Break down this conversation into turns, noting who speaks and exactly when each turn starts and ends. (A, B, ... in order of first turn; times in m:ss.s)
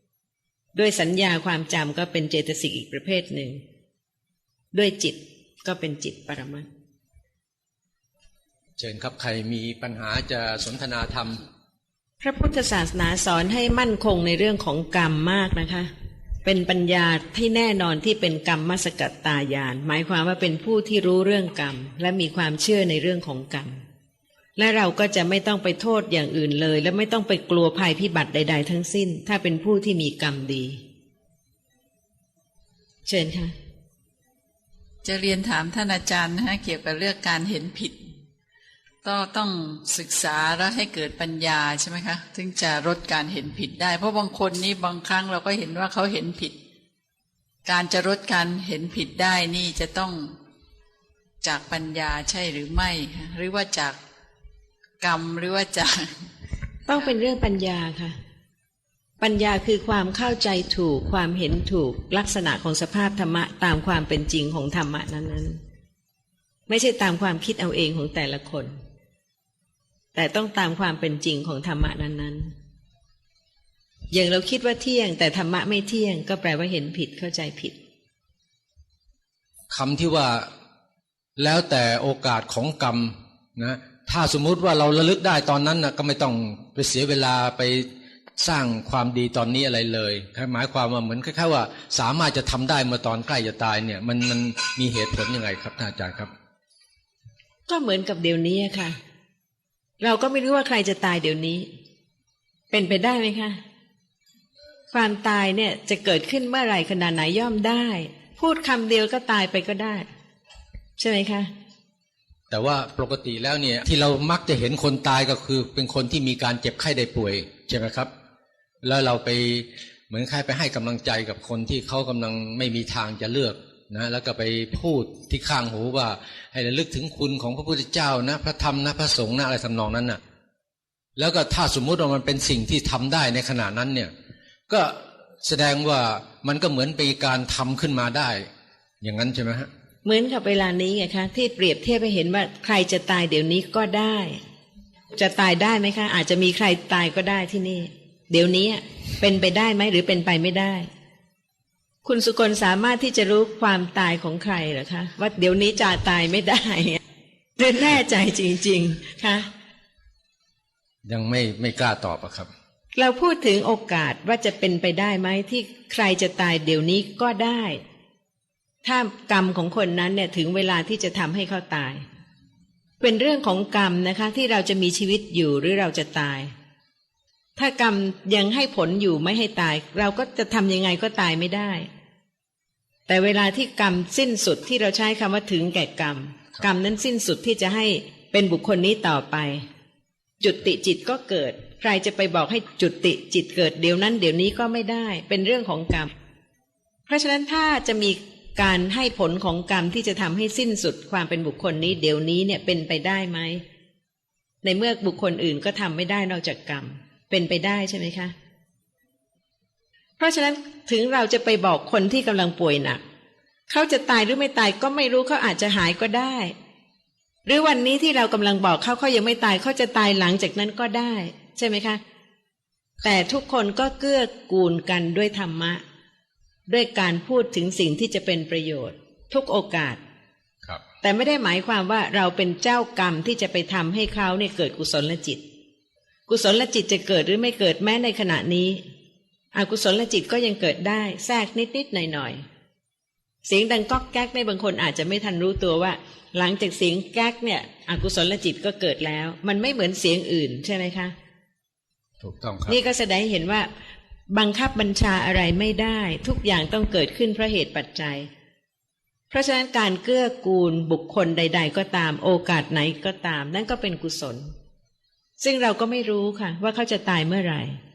0:00.7-0:03.6 A
0:04.7-0:06.7 A
0:08.8-0:11.4 B
0:12.2-0:15.9 A
0:16.4-0:23.8 A
0:24.6-0:30.8 A
0:33.0-0:33.5 A
0:35.0-0:38.0 C
0:39.0-0:46.5 C
0:47.6-0:50.3 C
0:51.4-0:54.0 C
0:55.0-0:56.1 C
0:56.9-0:58.2 A
0:59.2-1:05.6 A
1:06.7-1:08.7 A
1:10.1-1:12.5 A
1:14.1-1:17.8 A
1:19.7-1:20.5 B
1:21.4-1:27.8 B
1:28.4-1:36.3 B
1:37.7-1:39.0 A
1:40.0-1:41.7 A
1:42.7-1:43.6 A
1:44.9-1:50.1 A
1:51.0-1:51.5 A
1:52.5-1:58.1 B
1:58.8-2:10.2 B
2:11.2-2:14.1 B
2:14.7-2:18.5 B
2:19.0-2:19.7 B
2:20.0-2:24.4 A
2:25.1-2:30.9 A
2:32.0-2:37.0 A
2:37.6-2:39.5 A
2:41.0-2:42.5 B
2:43.0-2:47.8 A
2:48.8-2:52.0 A
2:53.0-2:56.5 A
2:57.6-3:01.9 A
3:03.1-3:09.6 A
3:10.4-3:16.1 A
3:17.1-3:23.6 A
3:24.6-3:28.3 A
3:30.2-3:33.0 A
3:33.7-3:36.5 A
3:37.4-3:42.0 A
3:43.0-3:45.8 A
3:46.7-3:50.0 A
3:51.0-3:55.4 A
3:56.3-3:58.8 A
3:59.5-4:02.4 A
4:03.4-4:11.1 A
4:12.2-4:12.8 B
4:12.7-4:13.7 A
4:14.3-4:18.3 A
4:19.3-4:24.5 A
4:25.4-4:27.8 A